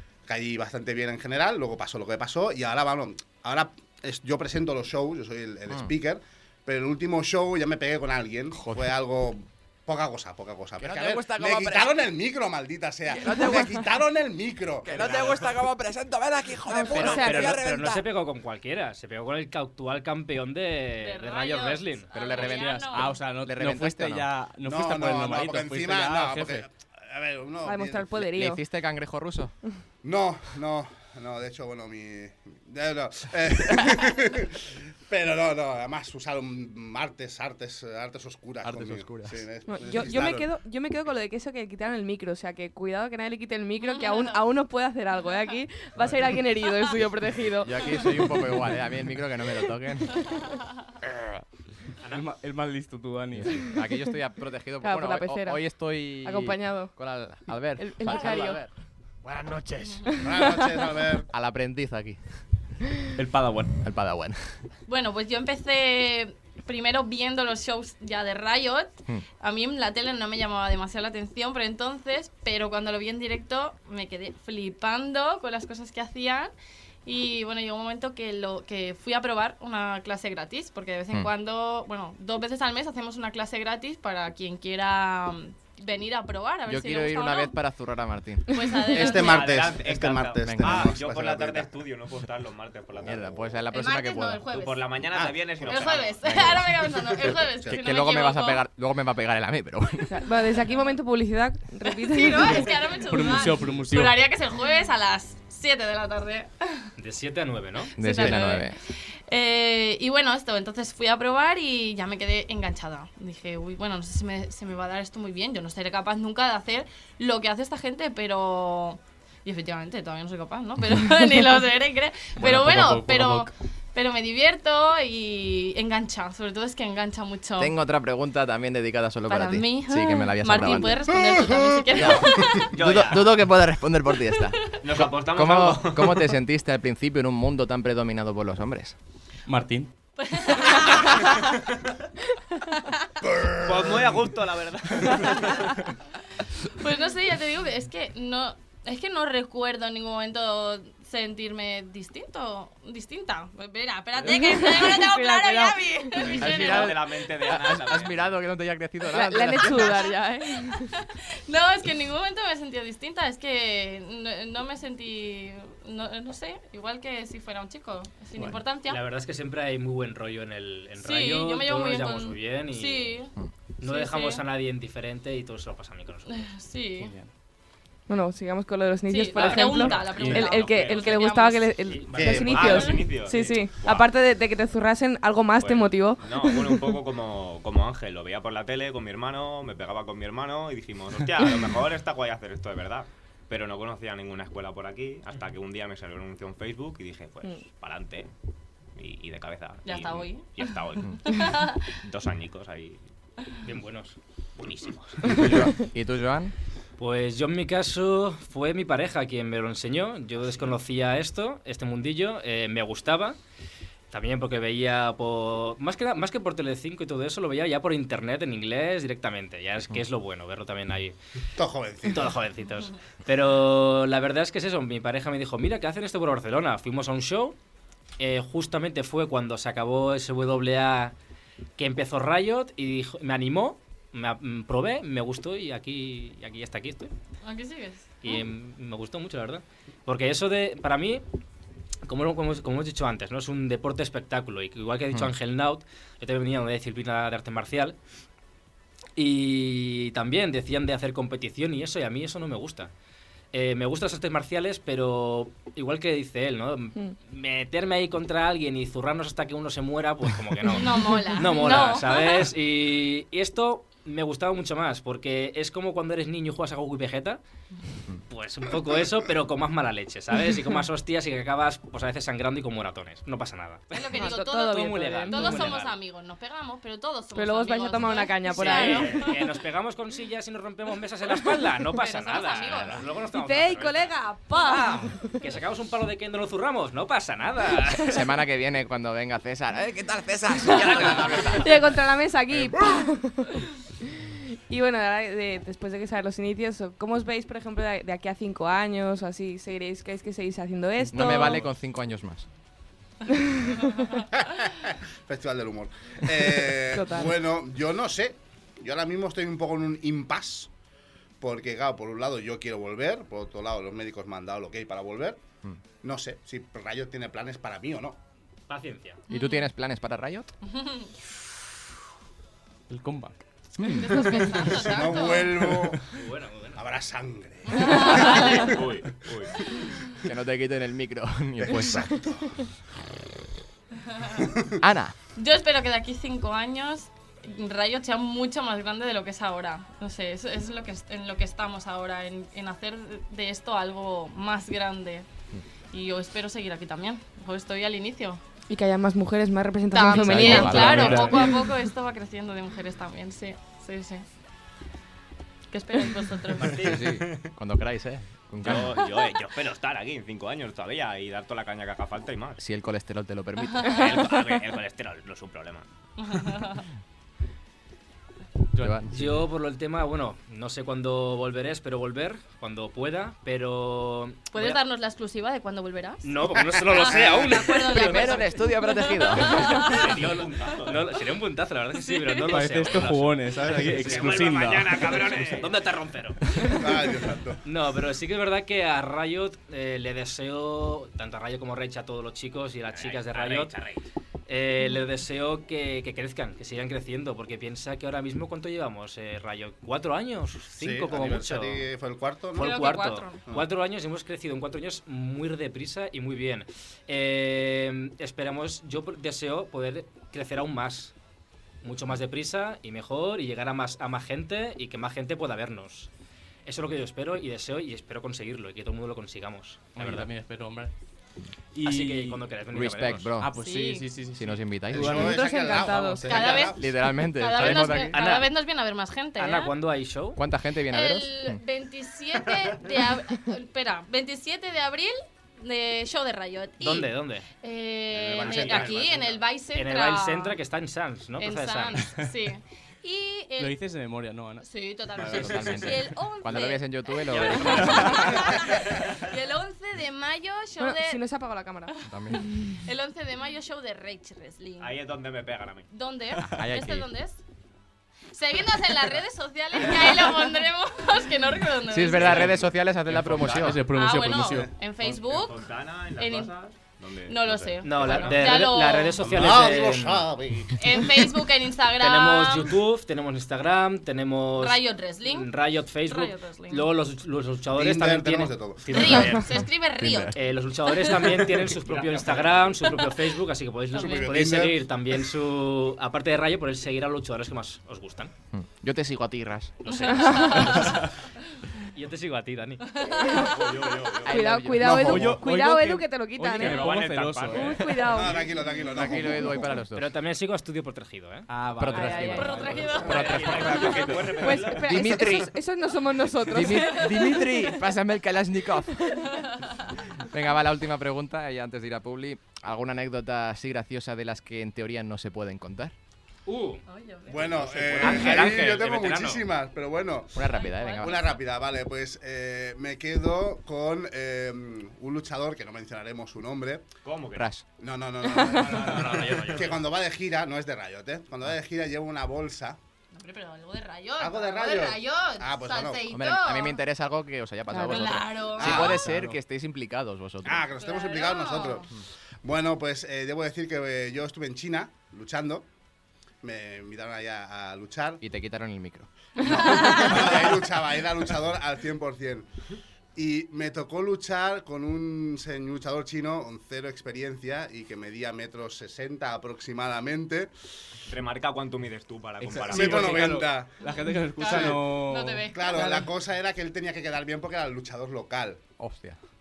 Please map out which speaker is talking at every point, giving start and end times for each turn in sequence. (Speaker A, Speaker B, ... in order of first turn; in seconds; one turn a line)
Speaker A: 0.3-15.4
Speaker B: 8.6-8.8
Speaker B: 10.8-11.9
Speaker B: 13.1-13.7
Speaker B: 14.8-18.0
Speaker C: 16.7-17.5
Speaker D: 16.9-22.4
Speaker E: 21.0-23.2
Speaker B: 22.1-24.3
Speaker F: 22.7-26.6
Speaker A: 24.6-28.1
Speaker C: 27.6-28.6
Speaker B: 28.3-29.5
Speaker A: 30.0-40.5
Speaker B: 38.6-39.4
Speaker C: 39.7-48.4
Speaker E: 43.8-44.4
Speaker B: 47.6-50.2
Speaker F: 52.1-53.8
Speaker B: 53.4-58.7
Speaker C: 54.8-55.6
Speaker C: 56.2-56.9
Speaker C: 57.8-58.6
Speaker B: 59.2-60.0
Speaker E: 59.8-60.1
Speaker A: 60.2-61.3
Speaker B: 61.3-62.4
Speaker F: 63.1-63.8
Speaker B: 63.8-64.6
Speaker E: 64.8-76.5
Speaker E: 77.0-87.5
Speaker B: 86.7-88.5
Speaker E: 88.5-89.6
Speaker A: 88.9-91.7
Speaker G: 89.2-93.6
Speaker B: 90.4-90.9
Speaker B: 93.0-94.4
Speaker E: 93.7-95.0
Speaker G: 94.5-96.6
Speaker A: 95.1-95.9
Speaker E: 95.6-98.6
Speaker B: 96.3-96.5
Speaker B: 97.7-100.2
Speaker C: 100.1-102.7
Speaker E: 101.8-106.9
Speaker F: 103.0-104.2
Speaker D: 107.0-107.9
Speaker E: 107.8-108.8
Speaker B: 108.0-108.7
Speaker E: 109.3-127.7
Speaker F: 122.4-123.5
Speaker B: 127.6-131.1
Speaker E: 129.3-132.7
Speaker A: 131.2-132.4
Speaker B: 131.9-138.9
Speaker G: 132.7-133.4
Speaker G: 134.8-136.3
Speaker F: 139.5-139.9
Speaker E: 140.2-141.5
Speaker G: 143.6-145.7
Speaker E: 146.8-157.1
Speaker C: 154.3-156.3
Speaker G: 156.2-158.4
Speaker B: 156.4-160.0
Speaker C: 159.1-160.8
Speaker E: 159.9-169.0
Speaker D: 168.8-173.2
Speaker E: 171.0-174.4
Speaker D: 173.8-176.5
Speaker E: 176.3-177.1
Speaker F: 177.0-177.3
Speaker C: 178.1-187.0
Speaker E: 179.1-181.8
Speaker D: 179.4-179.7
Speaker F: 180.0-180.5
Speaker G: 180.3-181.1
Speaker D: 181.9-182.8
Speaker A: 182.1-182.8
Speaker G: 182.3-184.1
Speaker E: 182.6-182.9
Speaker G: 185.6-198.3
Speaker G: 198.9-201.4
Speaker E: 199.8-202.0
Speaker G: 202.0-203.0
Speaker D: 203.6-204.2
Speaker G: 204.6-205.7
Speaker B: 205.2-206.5
Speaker D: 207.0-213.4
Speaker D: 214.1-221.2
Speaker A: 221.6-222.4
Speaker D: 222.1-227.6
Speaker D: 228.2-231.1
Speaker D: 231.8-237.1
Speaker E: 237.4-238.4
Speaker D: 238.2-241.2
Speaker D: 242.1-247.9
Speaker D: 249.2-252.9
Speaker D: 253.5-267.4
Speaker E: 260.7-262.5
Speaker D: 268.3-275.9
Speaker E: 273.9-279.4
Speaker C: 274.1-275.7
Speaker C: 277.3-279.2
Speaker D: 278.5-288.2
Speaker E: 281.9-283.1
Speaker C: 283.3-285.0
Speaker B: 288.0-291.7
Speaker D: 290.7-291.6
Speaker C: 291.5-301.7
Speaker B: 301.1-302.5
Speaker C: 303.3-303.8
Speaker A: 304.4-310.7
Speaker C: 306.9-307.3
Speaker A: 311.4-315.4
Speaker A: 316.0-318.2
Speaker D: 318.7-319.2
Speaker B: 319.3-320.5
Speaker E: 319.3-319.6
Speaker E: 320.6-321.1
Speaker F: 322.9-323.4
Speaker E: 323.8-325.6
Speaker F: 323.9-324.7
Speaker A: 324.7-326.0
Speaker F: 325.7-326.0
Speaker D: 326.1-326.8
Speaker A: 326.8-328.6
Speaker E: 327.7-329.0
Speaker G: 328.6-329.6
Speaker B: 330.2-332.1
Speaker A: 331.7-332.4
Speaker B: 334.8-335.1
Speaker E: 335.4-345.2
Speaker E: 345.9-348.4
Speaker C: 348.7-351.6
Speaker E: 349.9-354.2
Speaker B: 350.1-351.4
Speaker F: 350.6-351.4
Speaker E: 355.7-357.0
Speaker G: 356.6-357.5
Speaker B: 356.7-359.0
Speaker G: 358.6-362.6
Speaker B: 362.6-364.1
Speaker E: 363.6-364.3
Speaker G: 363.8-365.8
Speaker E: 366.2-366.8
Speaker F: 368.7-369.1
Speaker B: 368.8-369.1
Speaker D: 369.1-374.8
Speaker E: 374.5-380.7
Speaker D: 376.2-378.4
Speaker B: 377.9-379.8
Speaker G: 379.8-381.0
Speaker D: 379.9-384.5
Speaker E: 382.0-382.6
Speaker F: 382.5-385.4
Speaker G: 383.7-385.8
Speaker D: 385.3-386.9
Speaker A: 386.8-387.6
Speaker D: 387.6-393.7
Speaker G: 392.9-394.0
Speaker D: 394.5-401.9
Speaker A: 400.8-402.9
Speaker E: 402.5-403.4
Speaker D: 402.6-411.1
Speaker D: 411.8-416.1
Speaker D: 416.6-420.3
Speaker F: 419.9-420.9
Speaker F: 421.7-422.4
Speaker D: 421.8-423.3
Speaker B: 422.7-423.5
Speaker F: 423.4-426.2
Speaker E: 423.5-424.1
Speaker B: 424.3-425.3
Speaker A: 424.9-426.8
Speaker C: 425.1-426.4
Speaker E: 426.2-429.7
Speaker B: 426.7-428.1
Speaker D: 427.6-428.5
Speaker D: 429.4-430.4
Speaker B: 430.4-431.6
Speaker E: 430.9-440.6
Speaker D: 436.8-437.4
Speaker A: 438.1-439.4
Speaker G: 438.4-439.2
Speaker D: 439.7-442.1
Speaker E: 441.4-443.8
Speaker F: 443.6-446.0
Speaker E: 444.6-451.2
Speaker B: 445.3-448.4
Speaker F: 447.7-448.0
Speaker C: 450.8-451.9
Speaker B: 452.1-452.4
Speaker E: 452.8-455.0
Speaker G: 454.8-455.9
Speaker E: 455.9-457.4
Speaker B: 456.5-457.1
Speaker E: 458.3-462.7
Speaker B: 461.9-463.8
Speaker G: 462.1-462.6
Speaker F: 463.1-464.7
Speaker E: 463.8-466.6
Speaker G: 465.0-468.6
Speaker E: 467.2-469.3
Speaker D: 467.8-470.3
Speaker A: 469.2-470.8
Speaker E: 470.8-472.7
Speaker D: 472.0-479.6
Speaker E: 474.6-475.5
Speaker E: 476.0-476.9
Speaker A: 477.7-479.4
Speaker E: 478.9-480.4
Speaker B: 480.0-480.3
Speaker D: 480.3-488.3
Speaker E: 480.9-481.2
Speaker G: 481.8-482.8
Speaker E: 483.9-484.4
Speaker A: 483.9-484.8
Speaker B: 488.5-489.8
Speaker D: 489.8-491.0
Speaker E: 489.9-491.0
Speaker C: 490.1-490.8
Speaker D: 491.9-492.8
Speaker E: 492.8-493.9
Speaker G: 493.4-494.5
Speaker B: 494.2-495.4
Speaker C: 494.2-496.9
Speaker F: 494.8-498.0
Speaker G: 496.6-498.1
Speaker C: 497.6-498.5
Speaker A: 498.1-499.7
Speaker B: 498.9-500.1
Speaker D: 499.9-501.5
Speaker F: 501.5-503.1
Speaker B: 501.8-505.5
Speaker C: 501.9-502.7
Speaker E: 502.2-504.2
Speaker G: 503.1-505.3
Speaker C: 504.4-507.2
Speaker B: 506.5-509.0
Speaker E: 506.7-507.7
Speaker E: 509.2-509.8
Speaker B: 510.3-515.9
Speaker D: 516.5-516.8
Speaker E: 516.9-518.4
Speaker A: 517.3-526.9
Speaker D: 518.0-519.4
Speaker B: 520.3-521.3
Speaker E: 520.4-521.3
Speaker G: 527.0-527.5
Speaker B: 527.4-527.6
Speaker A: 527.8-532.8
Speaker G: 528.5-529.8
Speaker E: 533.1-536.8
Speaker A: 534.2-536.0
Speaker B: 536.1-540.6
Speaker C: 537.7-538.2
Speaker E: 537.9-539.0
Speaker A: 538.6-539.0
Speaker F: 538.6-539.4
Speaker A: 540.4-541.9
Speaker E: 540.7-541.9
Speaker A: 542.4-545.6
Speaker A: 546.4-548.2
Speaker B: 548.2-549.1
Speaker A: 549.4-552.5
Speaker E: 549.7-550.0
Speaker A: 553.1-560.5
Speaker G: 561.1-563.4
Speaker F: 562.4-565.8
Speaker A: 562.6-563.7
Speaker E: 563.8-566.1
Speaker A: 564.4-564.8
Speaker A: 565.5-568.6
Speaker B: 568.8-569.2